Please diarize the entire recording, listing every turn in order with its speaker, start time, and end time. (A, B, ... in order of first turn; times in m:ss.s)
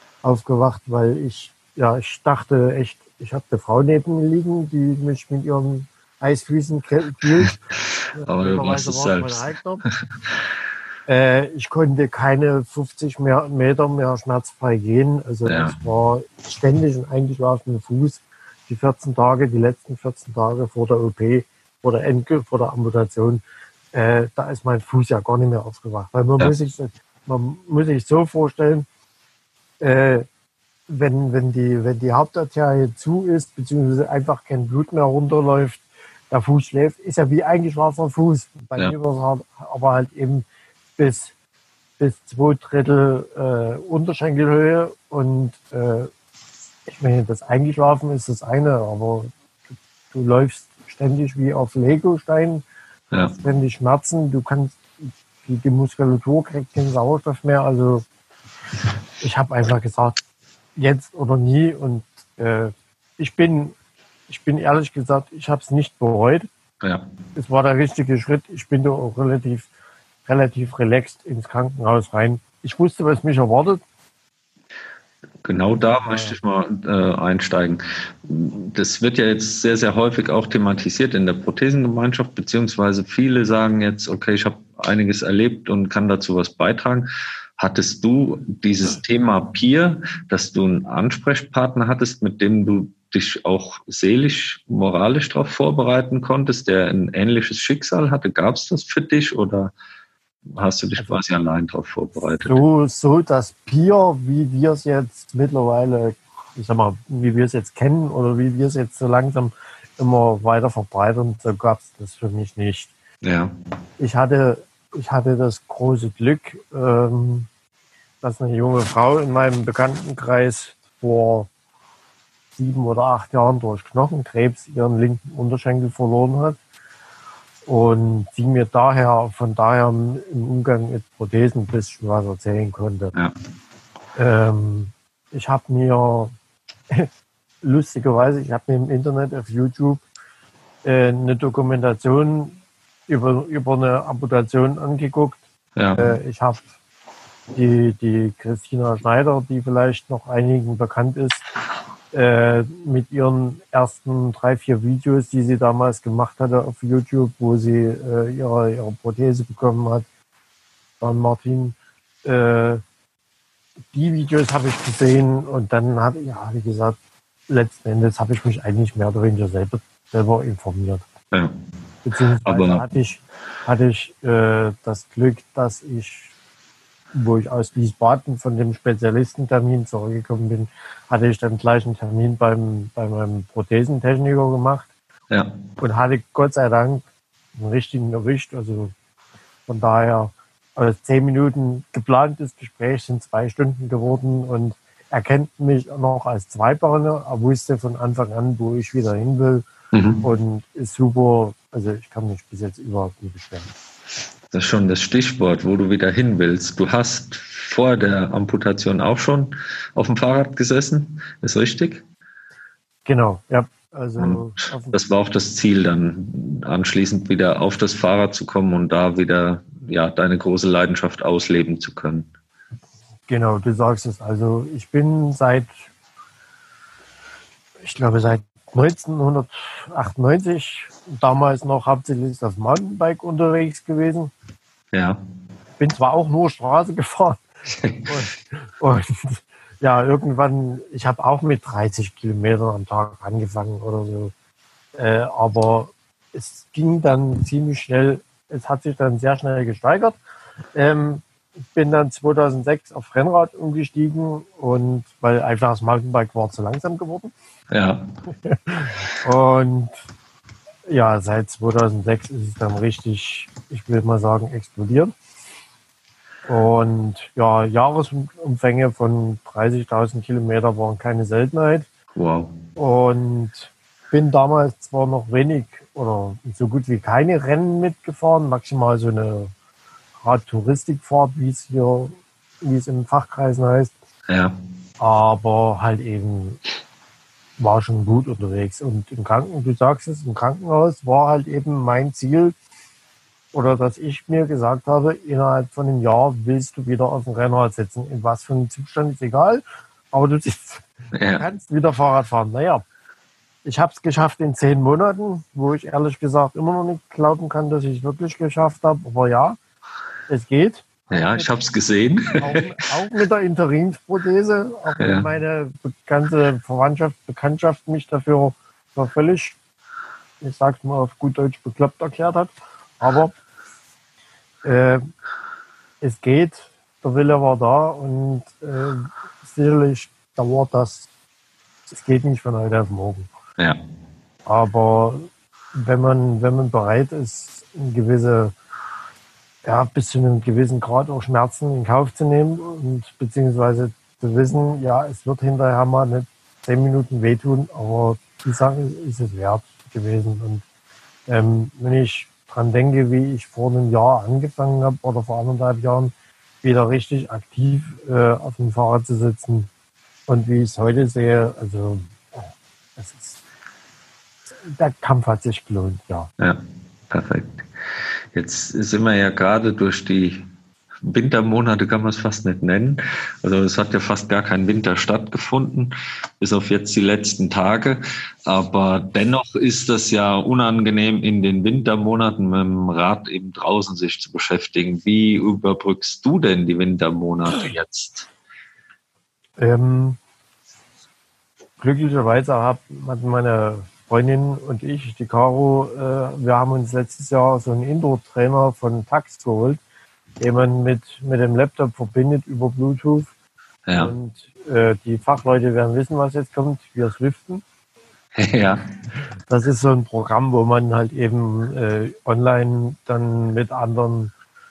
0:00.2-0:07.6 A
0:08.1-0:10.0 B
0:08.2-0:09.8 A
0:11.1-0:28.9 A
0:15.4-0:15.8 B
0:29.8-0:30.2 A
0:30.9-0:40.4 A
0:41.0-0:41.3 A
0:42.0-0:46.1 A
0:46.9-0:49.3 A
0:50.1-0:52.6 A
0:53.2-0:58.0 A
0:59.2-1:00.2 A
1:00.8-1:03.7 A
1:04.3-1:06.5 A
1:06.8-1:07.1 B
1:07.3-1:09.7 A
1:10.2-1:13.8 A
1:15.4-1:39.7 B
1:15.9-1:16.4 A
1:40.5-1:42.6 B
1:42.4-1:52.9 A
1:53.2-1:53.5 B
1:54.0-1:57.5 A
1:58.2-2:01.5 A
2:02.5-2:06.6 A
2:07.6-2:13.1 A
2:14.1-2:16.3 A
2:17.6-2:20.0 A
2:20.8-2:25.4 A
2:25.8-2:26.2 B
2:25.9-2:26.7 A
2:27.5-2:31.4 A
2:32.1-2:40.0 A
2:41.0-2:42.8 A
2:43.9-2:51.0 A
2:52.0-2:56.3 A
2:52.4-2:52.8 B
2:57.1-3:04.9 A
3:05.3-3:05.6 B
3:05.8-3:07.0 A
3:07.5-3:08.9 A
3:09.7-3:19.6 A
3:19.9-3:20.2 B
3:20.2-3:23.7 A
3:24.5-3:32.0 B
3:33.0-3:35.0 A
3:34.2-3:42.3 B
3:43.3-3:45.8 A
3:47.8-3:54.3 A
3:54.9-3:55.2 B
3:55.8-3:57.4 A
3:57.7-3:58.1 B
3:58.0-4:04.3 A
4:04.9-4:10.2 A
4:10.7-4:17.3 A
4:17.7-4:18.1 B
4:18.4-4:20.0 A
4:20.8-4:25.1 A
4:26.4-4:31.9 A
4:32.1-4:32.6 B
4:32.8-4:39.5 A
4:40.2-4:43.9 A
4:44.3-4:44.5 B
4:45.0-4:46.6 A
4:47.6-4:52.5 A
4:53.5-5:02.8 A
5:01.1-5:01.4 B
5:03.6-5:09.6 A
5:10.3-5:11.5 A
5:11.1-5:12.7 B
5:12.3-5:19.6 A
5:15.0-5:15.3 B
5:20.4-5:23.4 A
5:24.6-5:25.1 A
5:26.0-5:31.1 A
5:31.9-5:33.3 A
5:34.4-5:38.5 A
5:39.6-5:50.6 A
5:51.3-5:59.7 A
6:00.3-6:03.4 A
6:04.6-6:06.3 A
6:06.4-6:07.7 B
6:08.3-6:10.4 B
6:11.0-6:28.3 B
6:29.6-6:30.2 A
6:31.8-6:39.8 A
6:40.4-6:43.3 A
6:43.9-6:44.1 B
6:43.9-6:47.6 A
6:48.4-6:48.8 B
6:49.5-6:54.3 A